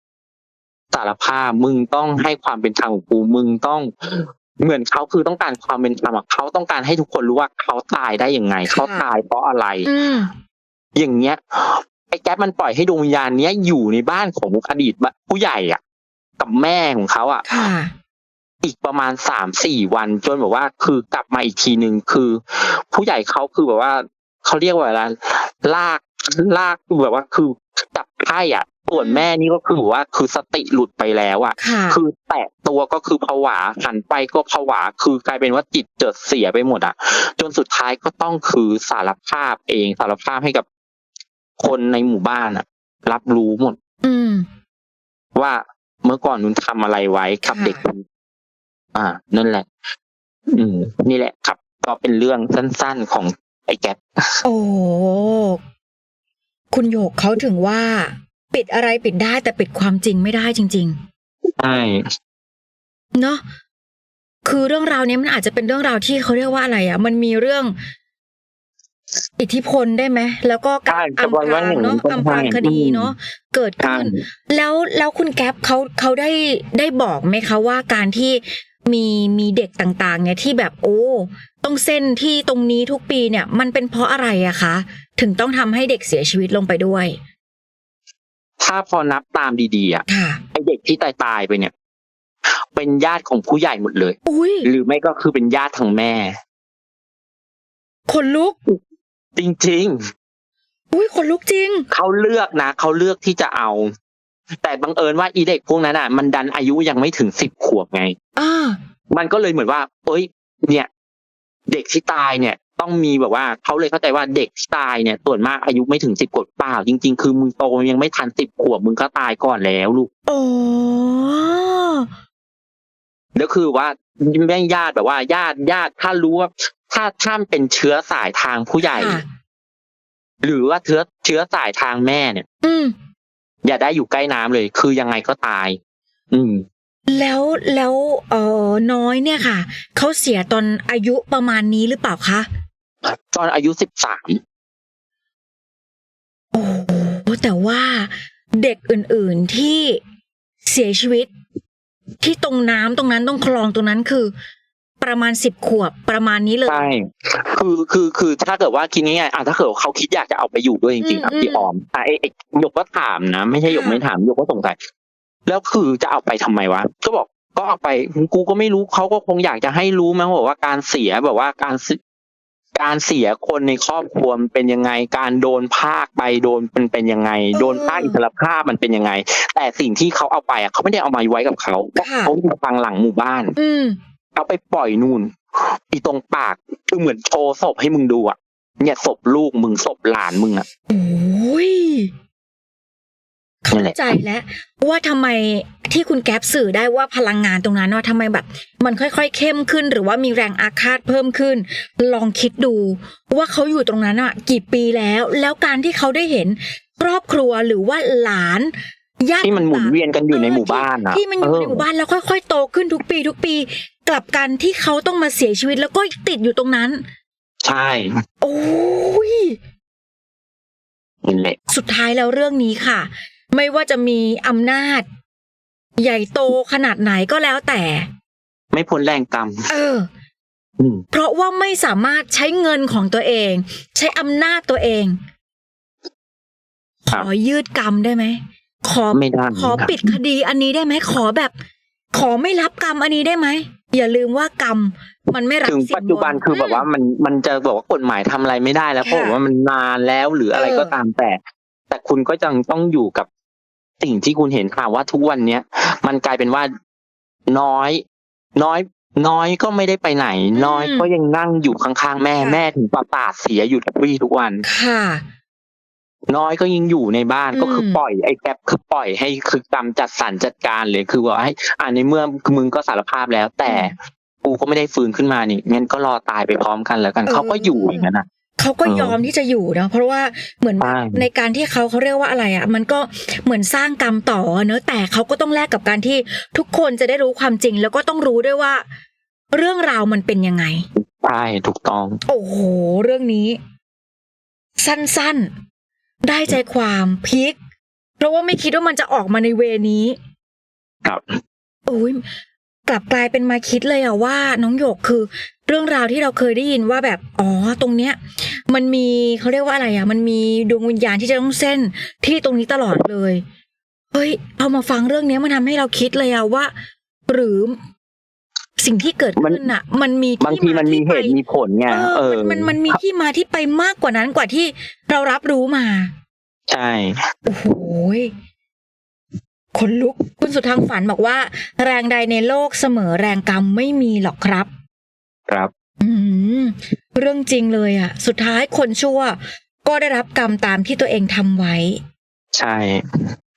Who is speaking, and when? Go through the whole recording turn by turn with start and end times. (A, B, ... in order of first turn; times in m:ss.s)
0:00.9-0:09.9 A
0:08.7-0:09.1 B
0:09.8-0:10.3 B
0:10.9-0:15.8 A
0:16.4-0:17.4 A
0:17.5-0:17.9 B
0:18.6-0:40.6 A
0:29.0-0:29.2 B
0:31.6-0:32.0 B
0:41.6-0:43.8 A
0:44.0-0:44.4 B
0:45.3-0:48.0 A
0:47.4-0:47.8 B
0:48.9-0:49.7 A
0:50.5-0:54.4 A
0:54.4-0:55.6 B
0:56.7-1:01.0 B
1:01.6-1:02.1 A
1:03.1-1:03.4 B
1:04.4-1:07.8 B
1:09.4-1:27.2 B
1:10.9-1:13.1 A
1:13.8-1:14.2 A
1:28.6-1:31.7 A
1:30.1-1:30.4 B
1:32.5-1:36.3 A
1:34.2-1:34.7 B
1:38.1-1:38.6 B
1:39.4-1:40.0 A
1:40.9-1:41.8 B
1:41.9-1:43.9 A
1:44.6-1:48.2 A
1:48.4-1:48.8 B
1:49.1-1:50.9 A
1:51.7-2:00.1 A
2:00.3-2:02.1 B
2:03.3-2:09.2 A
2:08.8-2:09.2 B
2:10.4-2:12.4 A
2:12.6-2:12.9 B
2:13.6-2:15.8 A
2:16.3-2:16.6 A
2:17.1-2:22.5 B
2:23.0-2:24.4 A
2:26.5-2:30.0 B
2:30.6-2:31.3 B
2:32.2-2:34.3 B
2:35.0-2:36.9 B
2:36.7-2:44.8 A
2:41.0-2:41.6 B
2:43.7-2:44.0 B
2:45.4-2:52.0 A
2:52.7-3:03.5 A
2:57.5-2:58.2 B
3:02.0-3:02.3 B
3:03.6-3:04.0 B
3:04.3-3:10.6 A
3:10.9-3:12.1 B
3:13.6-3:37.0 B
3:13.7-3:14.0 A
3:29.4-3:31.8 A
3:37.6-3:38.2 A
3:38.4-3:39.6 B
3:41.2-3:41.6 A
3:41.7-3:45.0 B
3:46.0-3:48.1 B
3:48.7-3:49.7 A
3:49.7-3:50.1 B
3:50.8-3:51.0 A
3:51.1-3:55.2 B
3:57.1-4:01.5 B
3:59.1-4:00.2 A
4:02.1-4:06.8 B
4:05.6-4:11.4 A
4:09.0-4:09.4 B
4:10.5-4:10.9 B
4:11.9-4:13.3 A
4:14.0-4:16.7 A
4:17.5-4:18.0 A
4:18.6-4:24.6 A
4:20.6-4:21.1 B
4:22.4-4:22.6 B
4:24.6-4:25.2 B
4:26.3-4:38.2 A
4:27.5-4:28.0 B
4:33.7-4:33.9 B
4:37.2-4:48.8 B
4:38.8-4:39.2 A
4:40.8-4:41.2 A
4:49.5-4:50.9 B
4:51.0-4:52.2 A
4:52.2-4:53.6 B
4:54.8-4:55.5 B
4:56.2-4:57.6 B
4:58.2-5:00.2 B
5:01.0-5:01.4 A
5:01.9-5:02.2 B
5:02.8-5:13.4 B
5:14.1-5:16.7 B
5:17.3-5:17.8 B
5:18.8-5:21.4 B
5:19.4-5:19.6 A
5:20.4-5:23.0 A
5:21.9-5:26.1 B
5:26.7-5:27.3 A
5:27.4-5:28.3 B
5:29.7-5:34.7 B
5:36.0-5:42.0 B
5:42.5-5:43.3 A